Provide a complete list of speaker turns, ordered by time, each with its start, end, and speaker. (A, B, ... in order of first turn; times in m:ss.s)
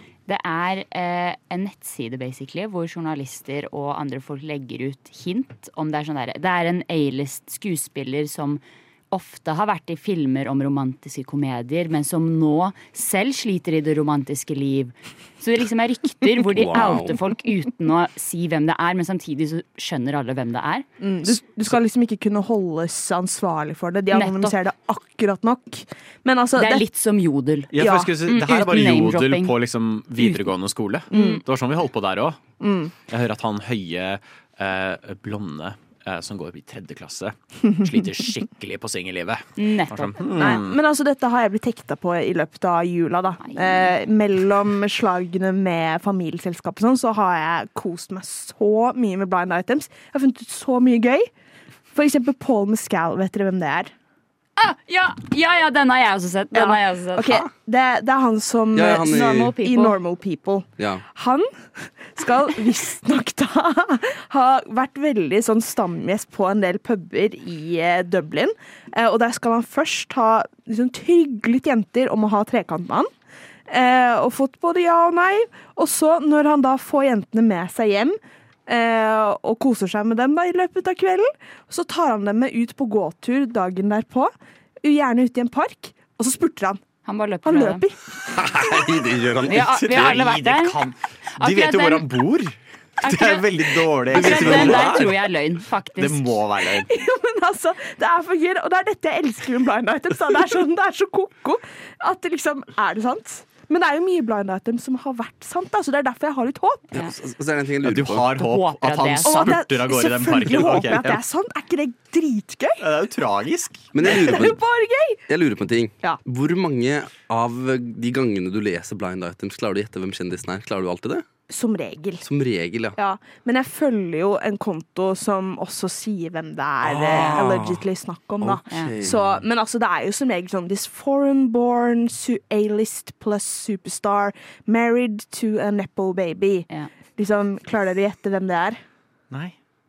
0:00.3-0:20.8 A
0:16.4-0:17.2 B
0:21.0-0:26.8 C
0:24.1-0:24.5 A
0:26.6-0:29.5 A
0:27.7-0:32.4 D
0:27.8-0:28.1 C
0:31.1-0:31.4 C
0:31.1-0:31.4 A
0:32.6-0:32.9 C
0:33.1-0:40.8 D
0:39.6-0:40.3 A
0:40.3-0:51.3 C
0:43.4-0:43.9 A
0:51.9-0:53.9 C
0:54.6-0:57.4 A
0:56.5-1:13.1 C
0:58.7-0:59.5 B
0:58.9-1:00.0 A
1:13.7-1:24.3 C
1:24.8-1:26.8 C
1:27.0-1:27.8 A
1:27.4-1:28.0 C
1:28.3-1:30.1 B
1:29.4-1:30.8 A
1:29.4-1:35.1 D
1:31.4-1:32.1 A
1:33.0-1:36.4 A
1:34.2-1:35.0 B
1:34.4-1:34.7 C
1:36.0-1:36.9 D
1:36.6-1:46.9 C
1:46.9-1:48.3 B
1:47.8-1:51.2 D
1:48.4-1:49.6 A
1:49.2-1:52.8 C
1:52.8-1:53.9 D
1:53.9-1:54.6 B
1:54.0-1:55.2 C
1:55.3-2:01.2 B
2:01.5-2:02.2 C
2:02.2-2:03.0 B
2:03.0-2:18.8 C
2:06.8-2:07.8 B
2:08.4-2:09.4 B
2:08.7-2:08.9 A